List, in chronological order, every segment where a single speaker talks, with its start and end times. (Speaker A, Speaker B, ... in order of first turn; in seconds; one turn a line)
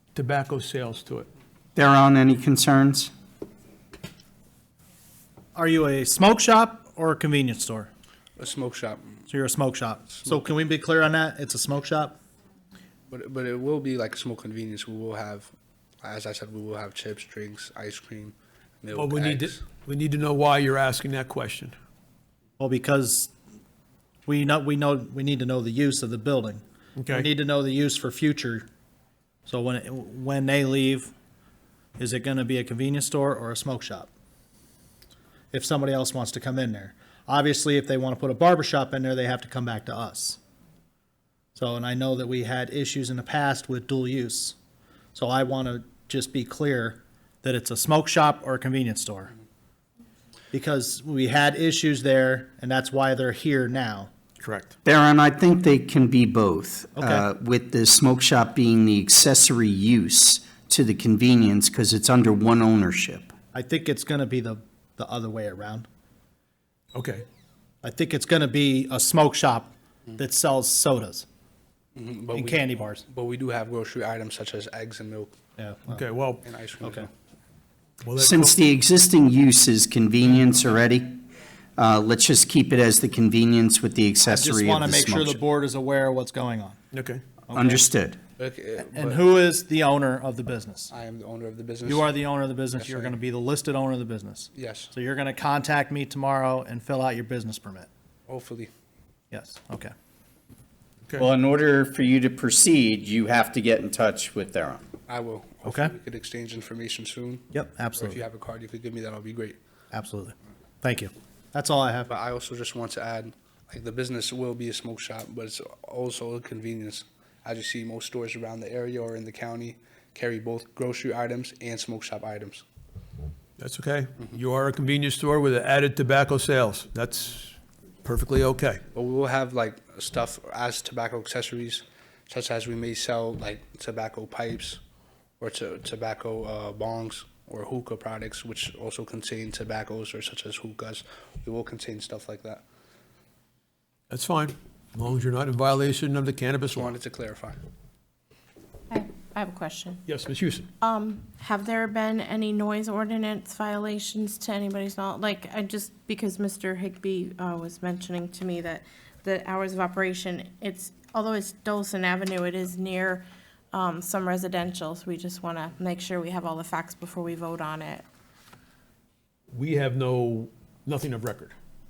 Speaker A: 0.1-1.3
Speaker B: 1.8-3.1
Speaker C: 5.5-7.9
Speaker D: 8.4-9.2
Speaker C: 9.3-12.2
Speaker D: 13.1-19.6
Speaker A: 18.9-21.7
Speaker C: 22.6-23.3
Speaker C: 24.3-28.6
Speaker A: 27.0-27.3
Speaker C: 29.5-31.1
Speaker C: 32.0-34.1
Speaker C: 35.5-40.4
Speaker C: 41.5-44.5
Speaker C: 45.1-49.3
Speaker C: 50.5-54.1
Speaker A: 54.4-54.8
Speaker B: 54.8-63.3
Speaker C: 57.0-57.3
Speaker C: 63.5-65.9
Speaker A: 67.0-67.3
Speaker C: 67.8-71.3
Speaker D: 72.0-75.3
Speaker C: 72.3-73.0
Speaker C: 75.6-76.0
Speaker A: 75.9-76.4
Speaker D: 76.5-77.1
Speaker C: 76.8-77.1
Speaker A: 78.0-78.6
Speaker B: 78.2-81.2
Speaker B: 81.8-85.4
Speaker C: 84.2-86.8
Speaker A: 86.9-87.2
Speaker C: 87.5-87.8
Speaker B: 87.5-88.2
Speaker D: 88.4-89.2
Speaker C: 88.9-90.9
Speaker D: 90.9-92.2
Speaker C: 91.8-97.9
Speaker D: 94.5-94.9
Speaker D: 98.3-98.7
Speaker C: 99.3-99.9
Speaker B: 101.2-104.8
Speaker D: 105.1-109.6
Speaker C: 105.7-105.9
Speaker C: 107.5-108.2
Speaker C: 109.9-112.1
Speaker D: 112.1-122.6
Speaker A: 123.6-128.8
Speaker D: 128.9-134.8
Speaker D: 135.4-142.6
Speaker A: 144.1-146.9
Speaker D: 146.7-147.6
Speaker E: 148.9-150.0
Speaker A: 150.1-150.7
Speaker E: 150.8-168.1
Speaker A: 169.5-171.5